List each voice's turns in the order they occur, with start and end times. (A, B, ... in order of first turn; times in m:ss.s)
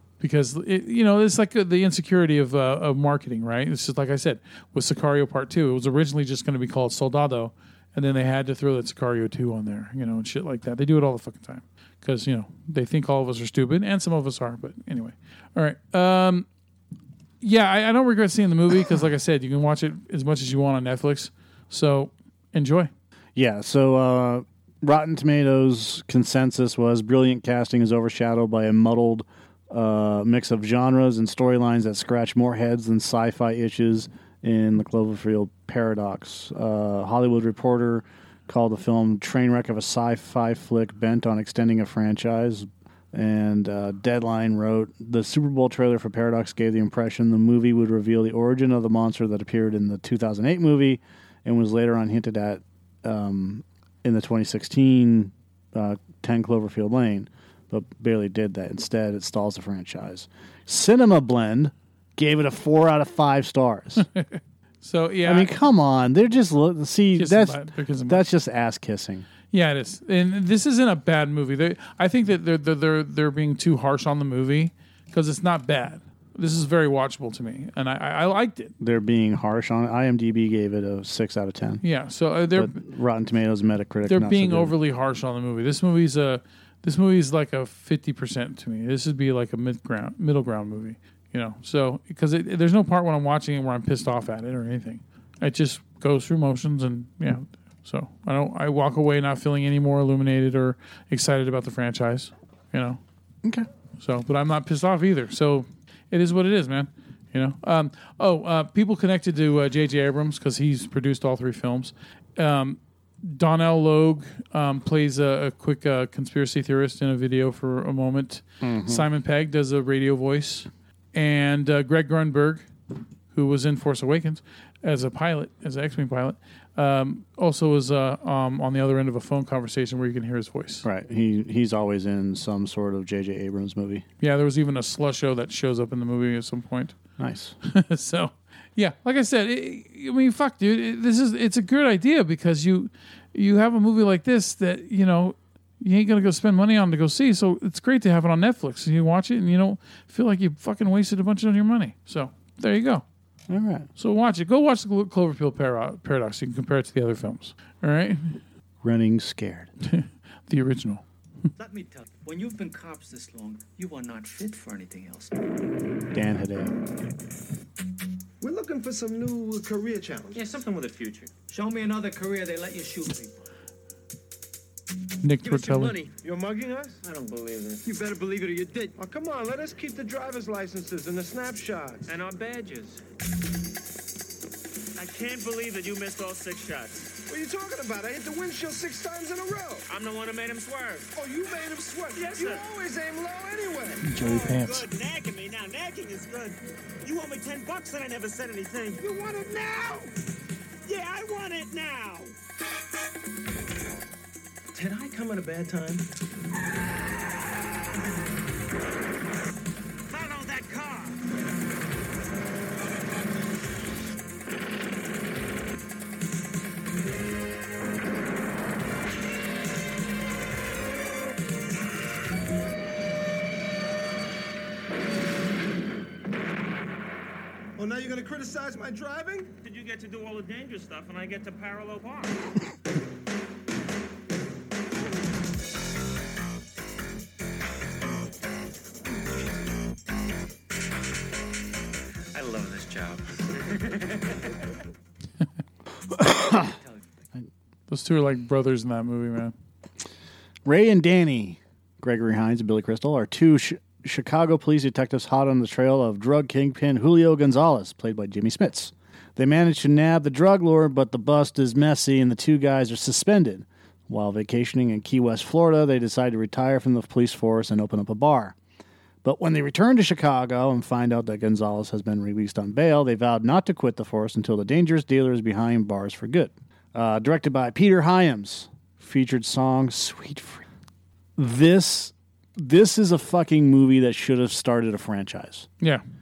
0:00.2-0:16.5 A
0:17.4-0:22.9 A
0:23.4-1:04.1 B
1:04.0-1:05.5 A
1:05.2-1:09.3 B
1:07.2-1:08.2 A
1:09.5-1:18.7 A
1:18.8-1:21.8 B
1:21.8-1:22.8 A
1:22.5-1:24.7 B
1:24.1-1:43.0 A
1:44.0-2:02.7 A
1:58.6-1:59.0 B
2:03.3-2:10.8 A
2:10.8-2:14.0 B
2:14.2-2:17.0 A
2:17.2-2:17.6 B
2:17.6-2:33.0 A
2:33.5-2:33.9 B
2:34.0-2:38.4 A
2:38.8-2:39.7 B
2:39.8-2:41.0 A
2:41.6-2:45.4 C
2:46.1-2:46.7 B
2:48.4-2:50.4 D
2:50.3-2:50.7 C
2:50.4-2:51.3 E
2:51.4-2:53.4 C
2:55.2-2:56.0 A
2:55.4-2:56.1 C
2:56.2-2:57.0 D
2:57.0-2:57.9 E
2:57.8-2:59.0 C
2:59.0-3:02.1 D
3:02.1-3:03.0 E
3:05.0-3:07.1 E
3:07.3-3:09.8 D
3:09.9-3:11.1 E
3:11.2-3:14.0 D
3:12.2-3:12.6 E
3:14.0-3:14.9 A
3:14.2-3:19.0 E
3:19.0-3:20.1 D
3:20.9-3:22.3 E
3:24.8-3:26.0 C
3:30.1-3:31.2 E
3:47.8-3:49.5 D
3:49.6-3:52.4 E
4:02.3-4:04.3 E
4:06.2-4:06.7 B
4:06.6-4:07.1 C
4:07.9-4:09.5 A
4:10.6-4:28.6 B
4:29.2-4:40.6 B
4:41.4-4:45.7 B